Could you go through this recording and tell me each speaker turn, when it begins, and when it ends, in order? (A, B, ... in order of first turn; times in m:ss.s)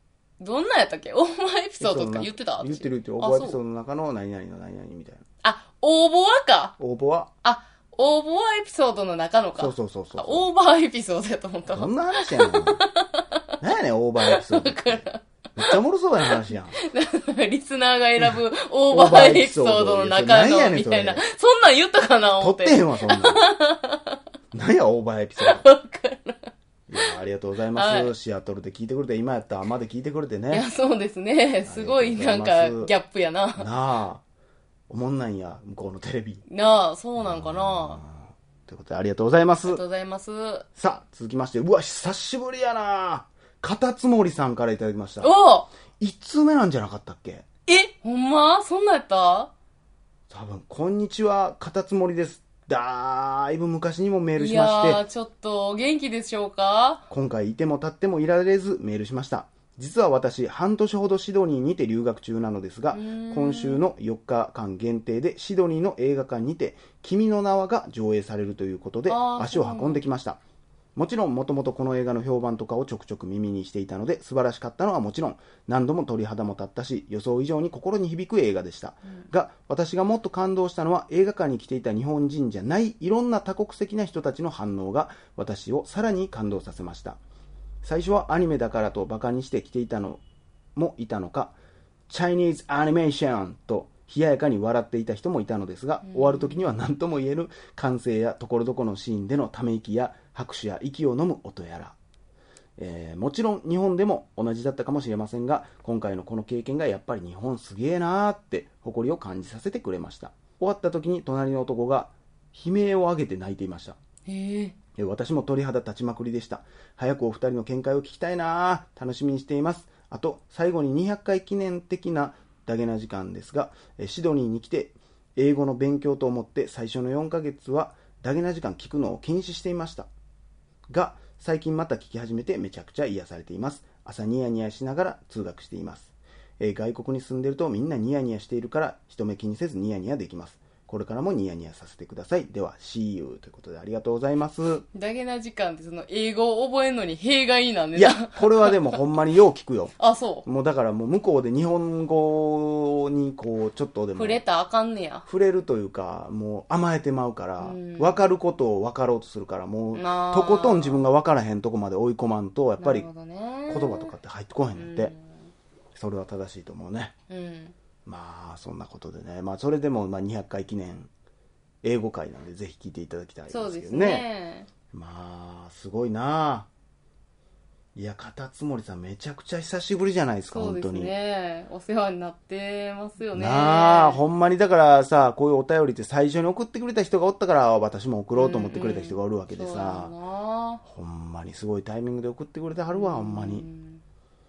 0:00.4-0:03.6 A
0:01.8-0:05.2 B
0:05.4-0:06.8 A
0:06.8-0:07.3 B
0:07.4-0:13.4 A
0:09.6-0:10.5 B
0:11.7-0:12.8 B
0:13.6-0:16.8 B
0:14.3-0:15.2 A
0:16.3-0:24.2 A
0:18.9-0:21.2 B
0:22.4-0:23.5 B
0:24.5-0:25.6 B
0:25.4-0:26.5 A
0:26.9-0:30.6 B
0:27.7-0:28.1 A
0:30.5-0:33.7 A
0:31.6-0:32.9 B
0:33.6-0:34.2 B
0:34.9-0:36.4 B
0:36.5-0:38.0 A
0:37.2-0:39.8 B
0:39.7-0:40.7 A
0:40.8-0:45.3 B
0:45.2-0:45.7 A
0:46.0-0:47.4 B
0:47.7-0:49.5 A
0:50.3-0:55.0 B
0:54.4-0:57.0 A
0:57.1-1:10.4 B
1:02.9-1:03.8 A
1:09.1-1:10.0 A
1:11.0-1:27.2 B
1:27.8-1:30.2 B
1:30.8-1:31.6 B
1:32.1-1:42.0 B
1:36.1-1:36.6 A
1:42.8-1:54.0 B
1:54.3-1:54.8 A
1:55.0-2:10.1 B
2:10.9-2:24.8 B
2:24.9-2:29.0 A
2:28.0-2:34.4 B
2:30.0-2:30.4 A
2:34.2-2:35.3 A
2:35.3-2:43.1 B
2:37.6-2:38.2 A
2:39.9-2:41.0 A
2:42.8-2:44.1 A
2:43.7-2:45.1 B
2:44.8-2:45.5 A
2:46.0-2:47.1 B
2:47.3-2:47.8 A
2:48.1-2:51.1 B
2:51.8-2:54.3 B
2:53.5-2:54.7 A
2:54.9-2:56.7 B
2:58.0-3:01.1 B
3:00.5-3:04.2 A
3:03.3-3:10.1 B
3:08.4-3:10.8 A
3:10.8-3:13.7 B
3:12.9-3:14.0 A